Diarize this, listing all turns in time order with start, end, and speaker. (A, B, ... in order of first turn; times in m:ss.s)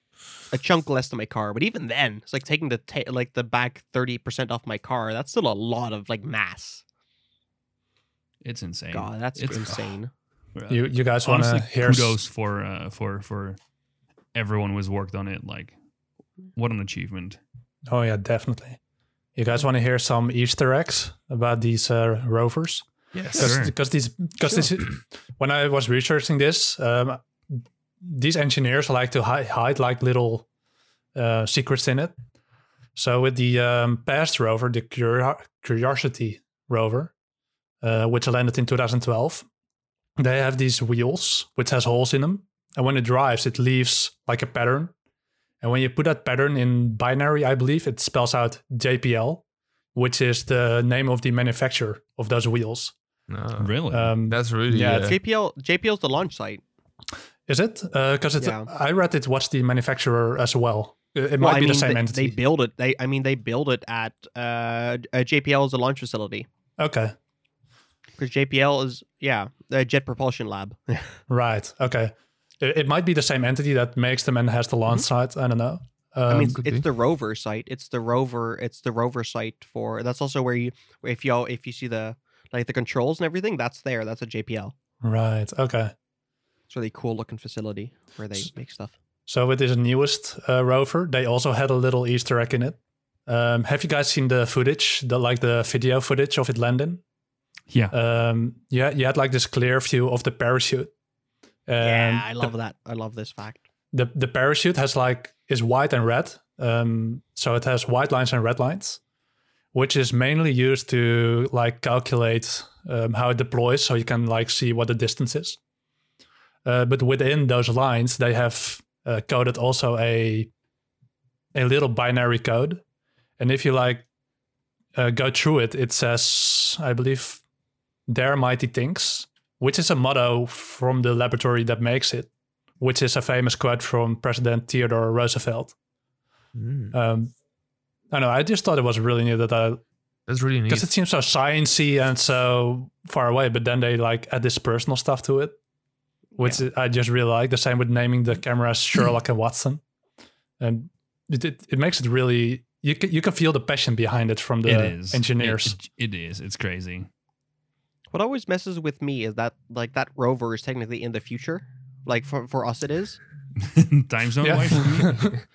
0:00.5-0:06.8 A
0:08.4-0:09.9 B
0:08.9-0:10.1 A
0:10.6-0:13.6 B
0:10.7-0:12.2 C
0:14.3-0:15.7 B
0:16.5-0:17.4 B
0:17.9-0:18.8 C
0:19.4-0:30.4 C
0:23.1-0:23.6 D
0:23.3-0:23.7 B
0:31.1-0:32.1 C
0:32.9-0:37.1 C
0:37.8-0:39.5 C
0:40.2-0:44.9 C
0:45.6-0:49.4 C
0:49.9-0:52.9 C
0:53.3-0:55.2 D
0:53.6-0:54.1 B
0:53.9-0:55.2 C
0:54.9-0:56.6 A
0:57.5-1:02.4 C
0:58.4-0:58.7 A
1:01.4-1:06.5 A
1:06.8-1:07.1 C
1:08.2-1:11.2 A
1:11.3-1:16.6 C
1:16.3-1:24.7 A
1:16.4-1:16.8 D
1:25.0-1:25.9 C
1:26.7-1:28.9 A
1:29.3-1:37.0 C
1:37.9-1:40.9 C
1:41.7-1:42.5 C
1:41.8-1:43.6 A
1:43.9-1:49.0 C
1:49.7-1:55.6 C
1:56.6-2:00.5 C
2:01.5-2:02.8 C
2:03.4-2:04.0 C
2:04.9-2:07.4 C
2:08.1-2:15.7 C
2:16.5-2:16.9 D
2:16.9-2:17.3 C
2:18.1-2:19.8 C
2:20.3-2:20.9 D
2:20.7-2:25.6 C
2:26.4-2:26.6 A
2:26.4-2:29.8 C
2:30.6-2:35.8 C
2:34.6-2:37.1 B
2:38.1-2:43.2 A
2:43.6-2:45.3 B
2:44.4-2:45.3 C